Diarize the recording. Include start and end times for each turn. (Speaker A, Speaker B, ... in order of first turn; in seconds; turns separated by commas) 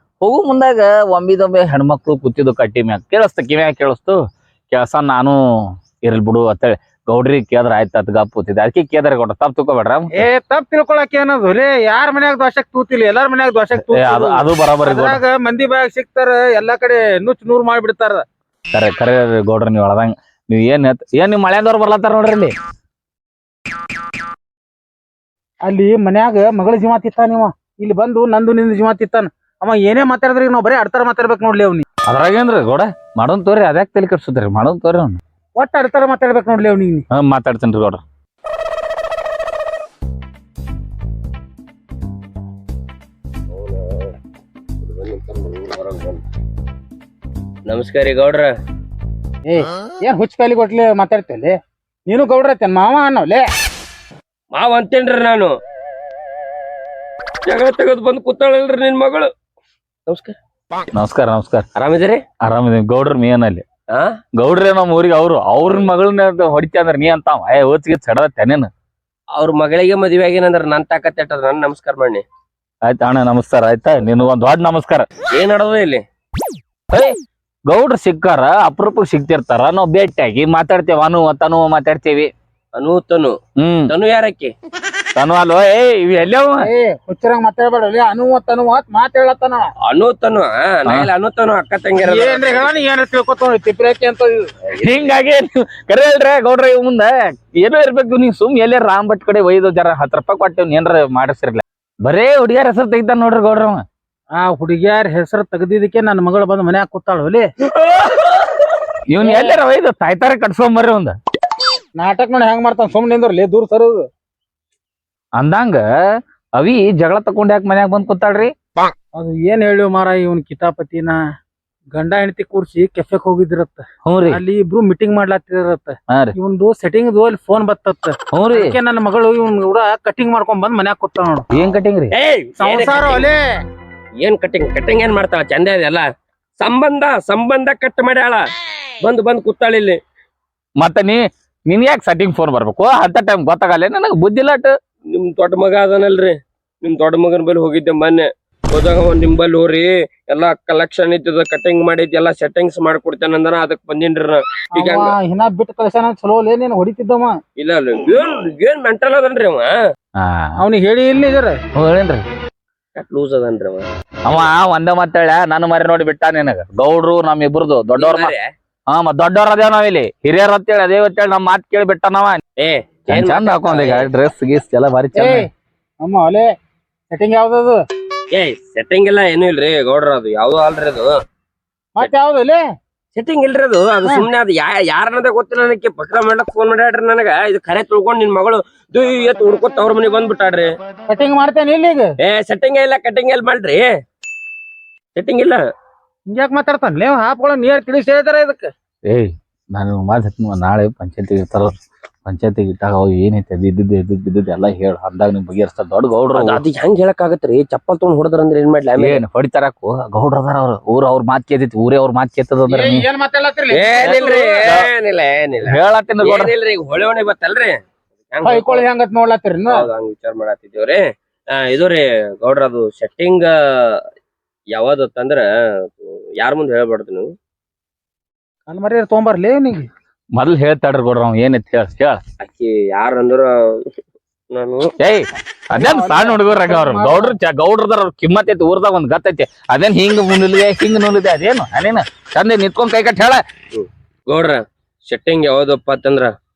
Speaker A: 0.2-10.2, Speaker B: 10.1-18.2, Speaker A: 13.9-15.2, Speaker A: 18.7-22.5, Speaker B: 25.6-31.8, Speaker A: 32.1-35.2, Speaker B: 35.6-37.0, Speaker A: 37.1-38.0, Speaker C: 43.5-44.1, Speaker C: 44.8-46.2, Speaker C: 47.7-48.5, Speaker B: 49.5-51.5, Speaker B: 52.1-53.4, Speaker C: 54.5-55.5, Speaker C: 57.5-59.3, Speaker C: 60.1-60.4, Speaker A: 60.9-61.6, Speaker C: 61.8-62.2, Speaker A: 62.4-63.6, Speaker A: 64.4-68.7, Speaker C: 69.3-72.2, Speaker A: 72.8-75.1, Speaker C: 75.3-76.0, Speaker A: 76.9-82.3, Speaker C: 82.7-83.3, Speaker A: 83.6-83.9, Speaker C: 83.9-84.5, Speaker A: 85.1-86.7, Speaker B: 86.6-89.6, Speaker C: 89.9-92.7, Speaker B: 92.0-94.5, Speaker C: 94.7-95.1, Speaker A: 94.8-103.8, Speaker B: 104.3-107.5, Speaker A: 107.8-108.2, Speaker A: 109.1-111.2, Speaker B: 109.2-109.5, Speaker B: 112.0-114.1, Speaker A: 115.3-118.5, Speaker B: 119.1-121.2, Speaker B: 121.9-131.4, Speaker A: 124.0-124.4, Speaker A: 126.1-126.3, Speaker A: 128.3-128.8, Speaker A: 131.5-132.1, Speaker C: 132.1-133.3, Speaker B: 132.6-133.4, Speaker C: 134.2-136.1, Speaker C: 136.6-138.4, Speaker C: 139.0-140.0, Speaker A: 140.8-144.7, Speaker C: 145.1-155.1, Speaker B: 154.7-157.4, Speaker C: 157.6-159.7, Speaker A: 160.2-160.6, Speaker B: 160.6-161.6, Speaker A: 161.8-162.2, Speaker C: 162.9-163.9, Speaker A: 164.2-168.3, Speaker C: 167.9-168.4, Speaker A: 168.9-172.4, Speaker C: 172.6-174.1, Speaker A: 173.1-175.5, Speaker B: 175.2-175.5, Speaker B: 176.0-176.5, Speaker B: 177.1-177.8, Speaker C: 178.3-181.1, Speaker B: 181.9-182.6, Speaker C: 183.1-190.7, Speaker B: 191.1-192.1, Speaker C: 192.2-193.9, Speaker C: 195.1-195.6, Speaker B: 196.3-198.7, Speaker A: 199.1-201.7, Speaker A: 202.2-206.6, Speaker C: 206.3-209.2, Speaker A: 209.0-213.1, Speaker B: 212.7-214.7, Speaker C: 213.7-218.8, Speaker A: 215.7-216.5, Speaker B: 218.4-219.9, Speaker C: 219.7-221.0, Speaker C: 221.6-224.0, Speaker C: 224.7-225.4, Speaker C: 225.9-227.3, Speaker B: 228.7-229.9, Speaker A: 230.3-232.2, Speaker C: 232.4-233.5, Speaker C: 234.5-234.9, Speaker A: 235.0-243.4, Speaker B: 235.7-237.3, Speaker C: 243.7-246.3